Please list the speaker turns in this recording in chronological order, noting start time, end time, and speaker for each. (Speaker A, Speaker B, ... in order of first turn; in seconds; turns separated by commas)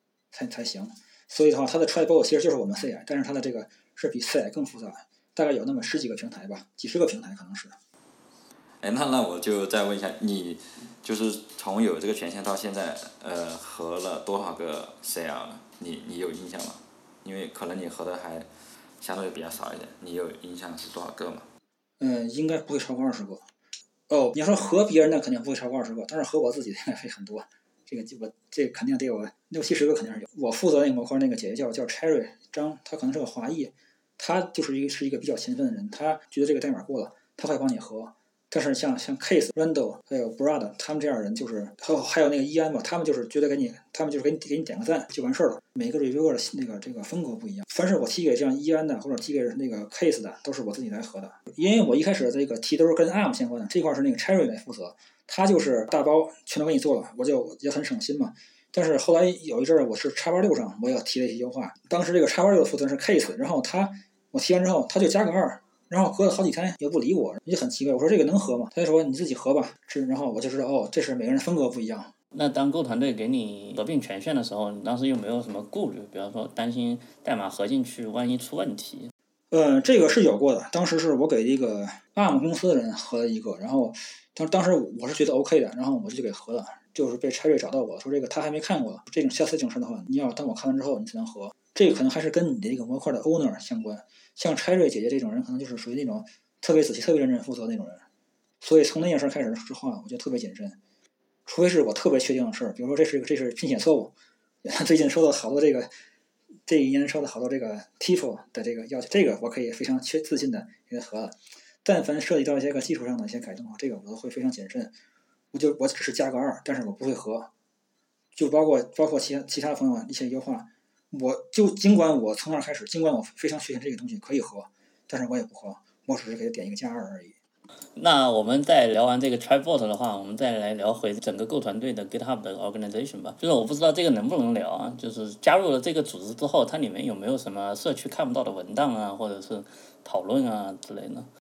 Speaker A: 0.3-7.8, Speaker B: 8.8-18.5, Speaker B: 19.0-21.5, Speaker A: 22.0-23.4, Speaker A: 24.1-72.1, Speaker C: 72.3-79.1, Speaker A: 79.5-98.0, Speaker A: 98.6-100.8, Speaker A: 101.5-105.9, Speaker A: 106.7-115.0, Speaker A: 115.5-117.5, Speaker A: 118.3-127.4, Speaker C: 128.0-141.3